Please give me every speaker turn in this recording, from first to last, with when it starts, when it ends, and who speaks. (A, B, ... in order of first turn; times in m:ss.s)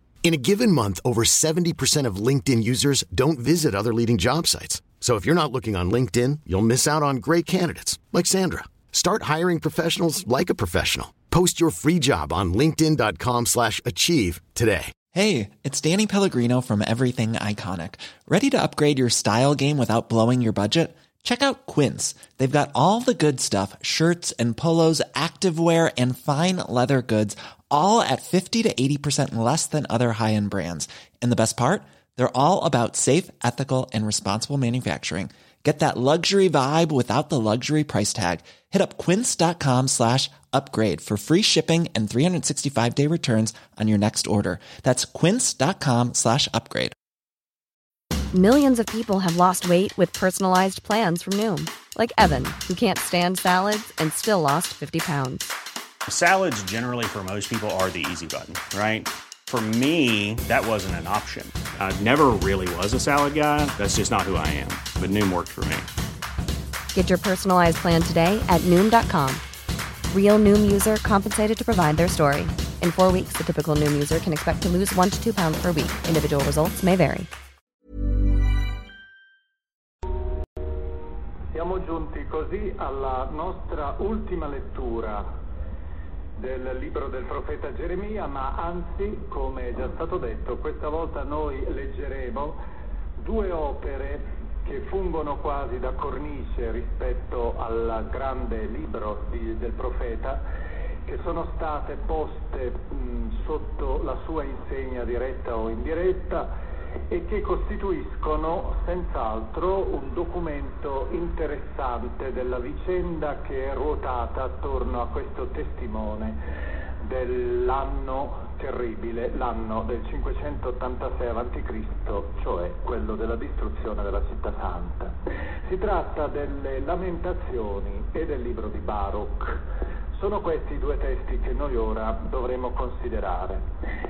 0:00.2-0:14.9 A
0:15.1-0:47.0 B
0:48.3-0:55.5 C
0:56.1-1:05.9 D
1:06.9-1:09.4 C
1:10.1-1:17.3 C
1:21.5-1:25.3 E
1:26.4-1:32.6 E
1:33.2-1:40.4 E
1:41.1-1:46.5 E
1:47.1-1:56.4 E
1:57.0-2:13.6 E